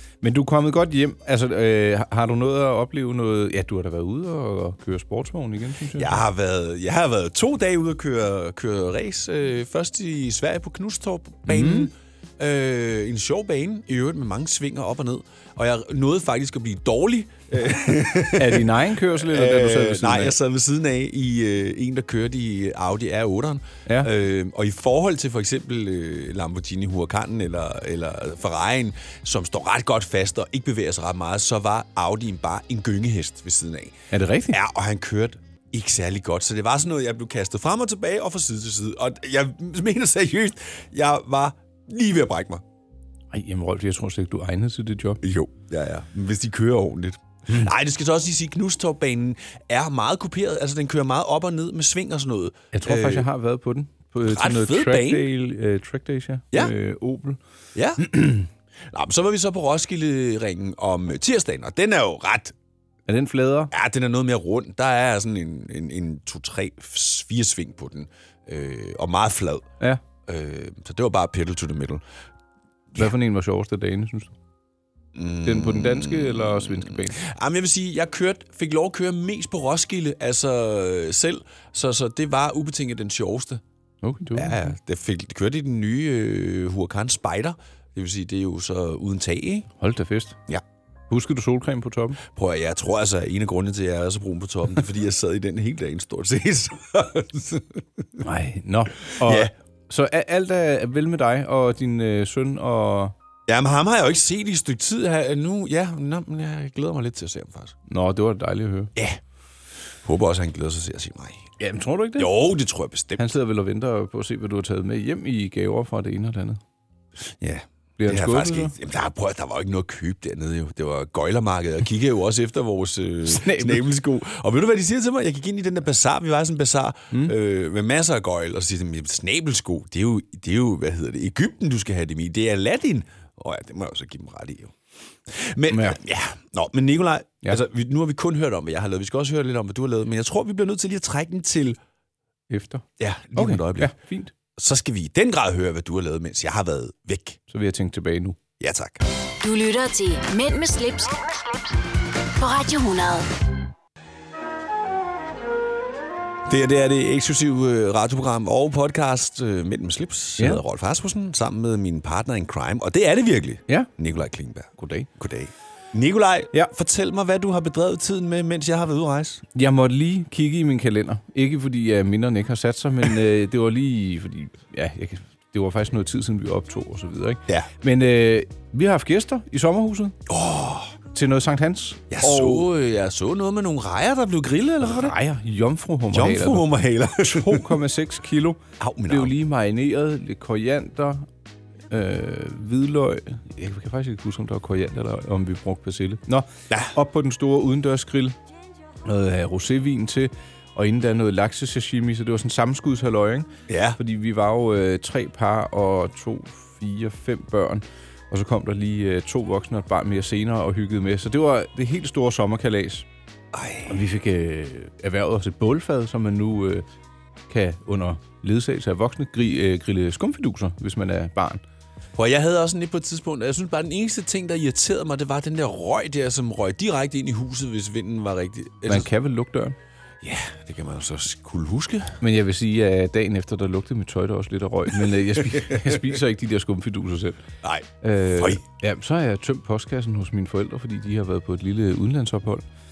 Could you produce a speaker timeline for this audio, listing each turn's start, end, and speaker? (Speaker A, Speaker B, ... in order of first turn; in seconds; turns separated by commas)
Speaker A: 0.2-6.2, Speaker B: 6.0-34.0, Speaker A: 11.5-11.9, Speaker A: 18.4-20.4, Speaker A: 34.1-34.6, Speaker B: 34.5-42.6, Speaker A: 43.3-45.2, Speaker B: 45.2-53.3, Speaker A: 52.7-57.4, Speaker B: 54.2-55.3, Speaker B: 57.8-58.1, Speaker A: 58.0-58.5, Speaker B: 58.9-62.5, Speaker A: 63.1-63.7, Speaker B: 63.7-69.7, Speaker B: 70.2-72.0, Speaker A: 73.0-74.3, Speaker B: 75.2-83.6, Speaker A: 75.4-77.2, Speaker A: 84.0-84.8, Speaker B: 84.3-89.7, Speaker A: 89.8-90.4, Speaker A: 91.1-92.2, Speaker B: 92.2-97.8, Speaker A: 98.2-103.1, Speaker B: 99.2-99.5, Speaker B: 103.5-107.8, Speaker A: 107.9-108.9, Speaker B: 110.0-111.4, Speaker A: 111.6-112.3, Speaker B: 112.2-113.3, Speaker A: 113.2-116.6, Speaker B: 117.4-134.8, Speaker A: 118.0-118.7, Speaker A: 123.3-123.9, Speaker B: 135.3-141.8, Speaker A: 135.7-136.0, Speaker A: 142.5-144.3, Speaker B: 143.0-143.9, Speaker B: 144.6-147.4, Speaker A: 147.5-148.4, Speaker B: 148.6-149.0, Speaker C: 149.4-151.7, Speaker C: 152.4-153.3, Speaker B: 156.5-169.4, Speaker A: 164.8-165.1, Speaker A: 169.6-180.2, Speaker B: 180.3-180.9, Speaker A: 181.1-182.7, Speaker B: 182.1-185.2, Speaker A: 184.8-186.7, Speaker B: 186.1-187.7, Speaker A: 187.2-191.3, Speaker B: 188.8-189.3, Speaker A: 191.9-198.4, Speaker A: 199.1-213.1, Speaker B: 203.7-204.0, Speaker B: 213.5-214.0, Speaker A: 213.9-216.8, Speaker A: 217.5-221.6, Speaker B: 222.2-229.1, Speaker A: 228.9-229.8, Speaker B: 230.2-232.2, Speaker A: 232.2-237.4, Speaker B: 235.4-236.0, Speaker B: 237.6-238.6, Speaker A: 238.0-242.7